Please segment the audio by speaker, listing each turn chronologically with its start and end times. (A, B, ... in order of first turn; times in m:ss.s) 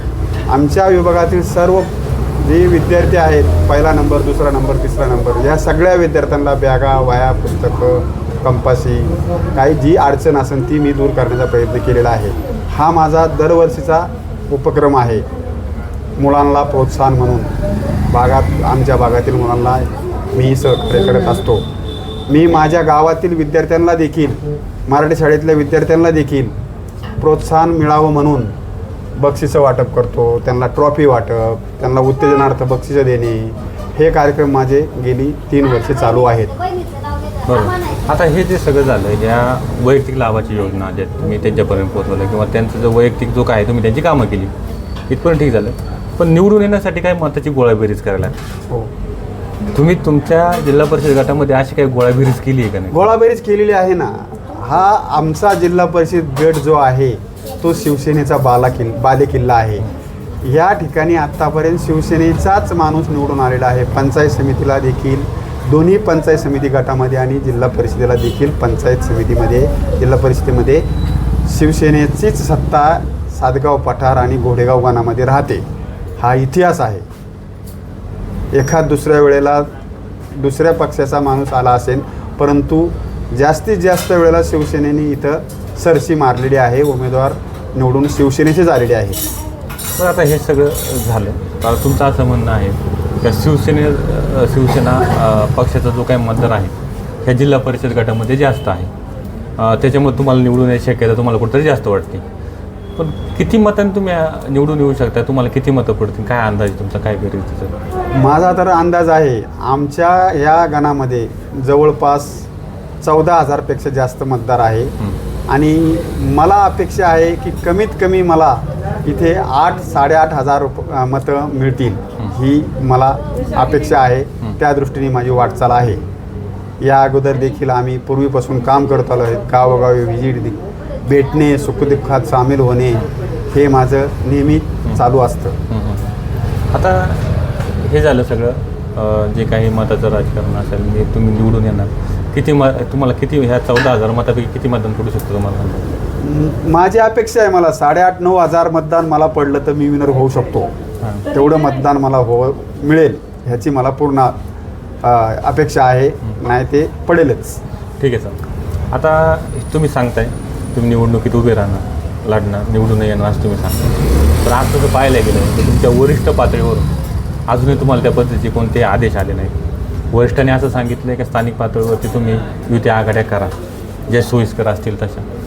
0:00.5-0:15.3 A
0:16.2-0:17.5 A
0:18.1-0:21.6 A
0:22.3-0:26.5 A
0:27.2-0:28.5 A
0:29.2-0:36.6 A
0:37.5-0:44.5 B
0:45.1-0:48.4 B
0:49.7-0:53.1 B
0:52.9-0:59.9 A
1:00.4-1:10.8 A
1:11.5-1:15.6 A
1:16.2-1:17.0 A
1:18.5-1:19.7 A
1:20.3-1:29.2 A
1:30.0-1:38.9 B
1:39.6-1:42.2 B
1:43.0-1:47.7 B
1:48.1-1:52.5 A
1:53.0-1:54.9 A
1:55.5-2:06.0 A
2:06.8-2:15.6 A
2:15.7-2:16.1 B
2:16.7-2:25.8 B
2:26.2-2:30.7 A
2:31.3-2:34.4 A
2:35.0-2:37.6 A
2:38.0-2:38.4 B
2:38.9-2:43.9 B
2:44.4-2:46.9 B
2:47.5-2:49.6 B
2:50.1-2:53.5 B
2:54.1-2:55.2 B